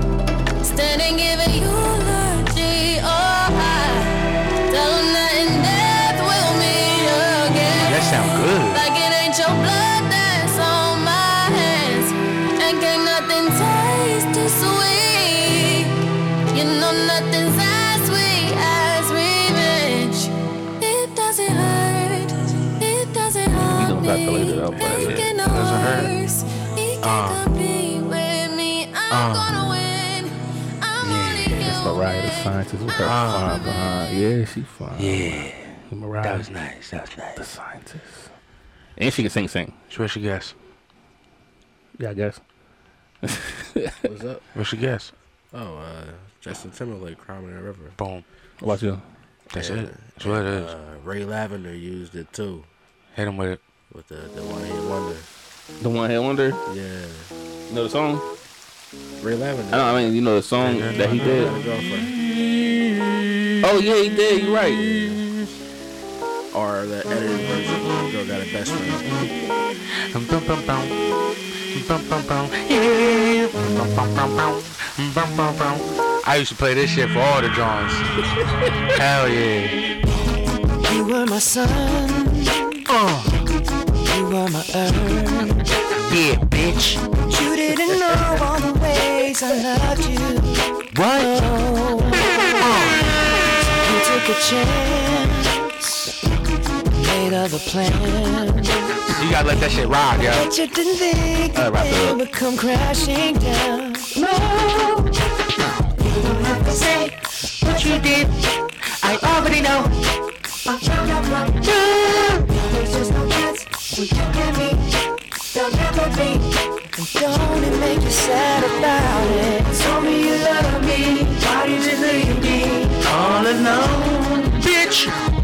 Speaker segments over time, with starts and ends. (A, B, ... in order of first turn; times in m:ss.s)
0:00.6-0:04.1 A
0:04.7-0:16.0 A
0:07.7-0:08.8 B
0:16.5-0:32.6 A
0:23.7-0:25.3 C
0:24.8-0:26.1 B
0:27.0-0:27.4 B
0:29.1-0:29.6 B
0:31.0-0:31.7 B
0:31.6-0:36.5 C
0:33.0-0:33.6 B
0:35.0-0:35.5 B
0:36.2-0:37.4 B
0:37.4-0:38.3 C
0:39.0-0:39.7 C
0:39.9-0:40.5 B
0:42.0-0:42.4 C
0:43.2-0:44.0 C
0:44.0-0:44.4 D
0:44.6-0:45.1 B
0:45.5-0:48.0 D
0:48.0-0:48.2 B
0:48.6-0:49.0 C
0:49.5-0:50.7 B
0:49.5-0:52.7 D
0:53.2-0:53.6 B
0:53.9-0:55.3 D
0:55.8-0:56.6 C
0:56.7-0:57.3 D
0:57.7-0:58.2 C
0:59.2-1:02.2 D
0:59.7-1:01.5 C
1:00.8-1:01.5 B
1:02.5-1:03.0 B
1:03.6-1:05.0 C
1:06.5-1:09.2 D
1:10.1-1:11.0 B
1:11.7-1:18.1 B
1:18.9-1:19.8 B
1:20.8-1:22.8 E
1:22.9-1:23.4 B
1:24.0-1:25.7 E
1:26.1-1:27.0 B
1:27.3-1:32.7 E
1:30.9-1:31.5 B
1:32.6-1:33.1 B
1:33.8-1:36.1 E
1:36.9-1:39.2 E
1:39.2-1:40.5 B
1:40.2-1:45.1 E
1:41.5-1:42.2 C
1:46.0-1:48.3 E
1:47.6-1:48.2 B
1:49.0-1:49.7 B
1:49.1-1:49.9 E
1:50.7-1:54.8 E
1:55.5-2:04.4 E
2:03.1-2:03.9 B
2:04.6-2:05.1 B